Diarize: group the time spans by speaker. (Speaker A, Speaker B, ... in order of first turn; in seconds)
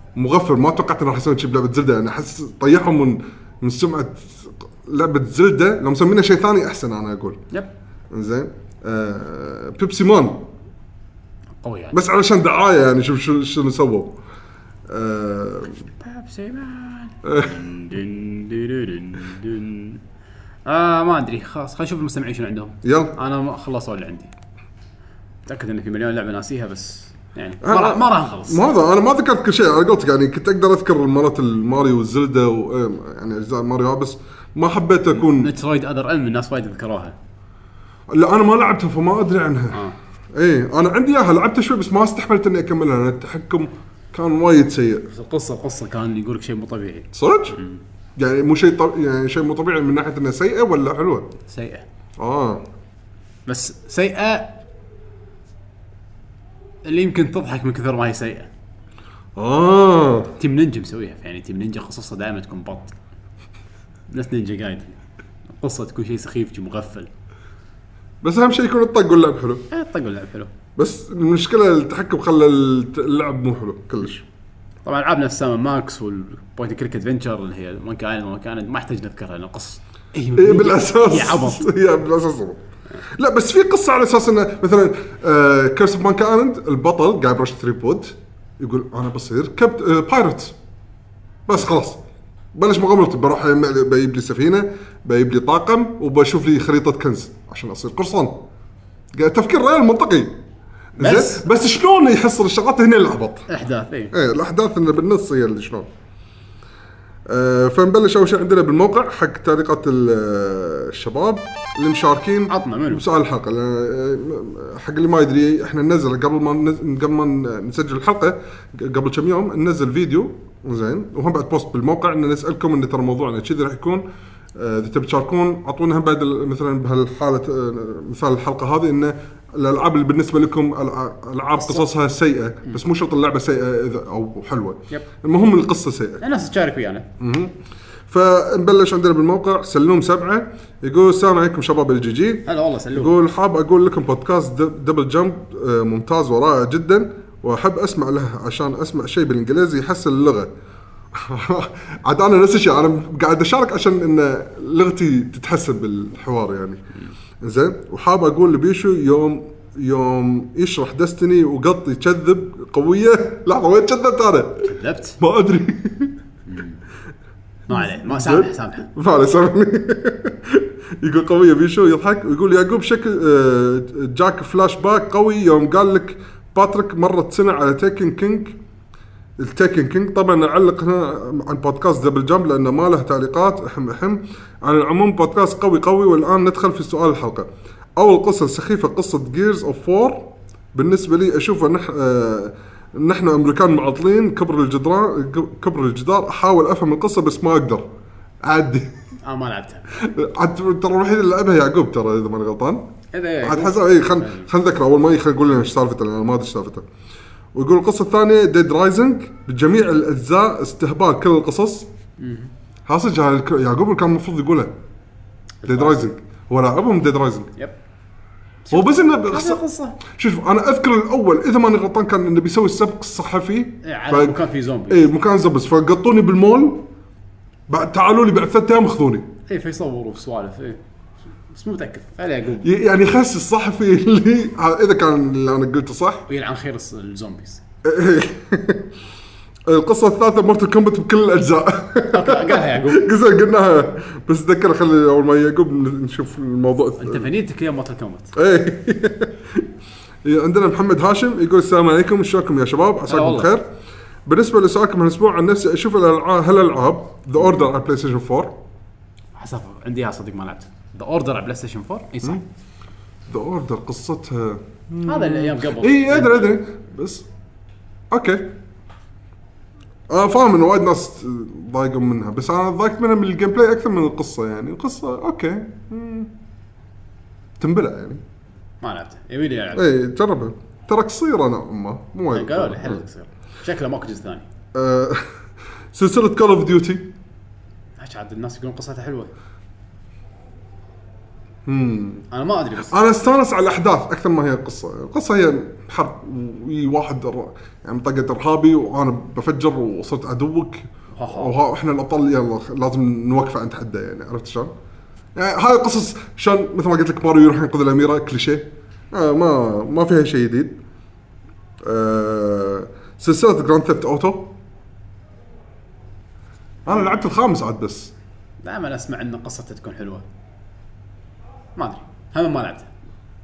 Speaker A: 0.1-7.4, 8.1-10.5, 11.9-14.2, 14.9-15.8, 17.2-17.6, 22.8-23.1, 27.6-35.5, 38.1-39.8, 40.3-45.1, 47.1-47.6, 48.2-51.3, 52.2-52.6, 59.4-60.3, 68.2-69.6, 70.8-74.2, 80.3-82.6, 83.1-90.5, 91.5-92.0, 92.5-98.4, 99.1-100.4, 101.0-103.5, 104.1-105.9, 107.3-124.0, 124.5-136.2, 137.2-137.5, 138.1-150.5, 151.1-156.8, 157.4-166.2, 167.7-178.6, 179.4-197.8, 198.4-198.9, 199.9-202.8, 203.4-206.8, 207.5-211.9, 212.9-214.7, 215.7-217.5, 218.7-226.8, 227.7-229.3, 232.6-236.2, 237.8-238.9, 239.7-247.3, 248.3-249.7, 250.2-253.7, 254.2-258.6, 263.3-267.2, 268.1-268.5, 270.1-276.3, 277.6-278.2, 279.7-283.0, 284.7-285.3, 285.9-287.1, 291.6-292.3, 292.9-304.7, 305.3-310.8, 311.8-314.5, 316.9-318.1
Speaker B: 11.6-12.0, 16.0-20.0, 20.6-24.3, 25.5-28.7, 35.1-37.1, 45.1-47.8, 51.5-51.8, 53.5-54.5, 56.8-58.5, 60.4-62.9, 64.1-65.0, 65.5-67.1, 69.7-70.5, 74.8-81.7, 101.0-101.5, 103.5-104.1, 112.5-113.0, 131.6-131.8, 136.2-137.1, 142.4-143.1, 164.6-165.2, 166.5-166.8, 167.7-168.9, 199.2-199.9, 203.1-204.5, 212.2-212.5, 215.6-216.0, 218.6-220.0, 223.8-225.1, 229.5-230.8, 231.5-232.7, 236.3-237.6, 242.1-243.0, 247.0-248.3, 253.1-253.5, 259.4-262.4, 265.0-266.6, 278.8-279.9, 282.3-284.4, 288.0-289.3, 292.3-292.9, 301.1-301.5, 318.6-320.2, 321.8-322.9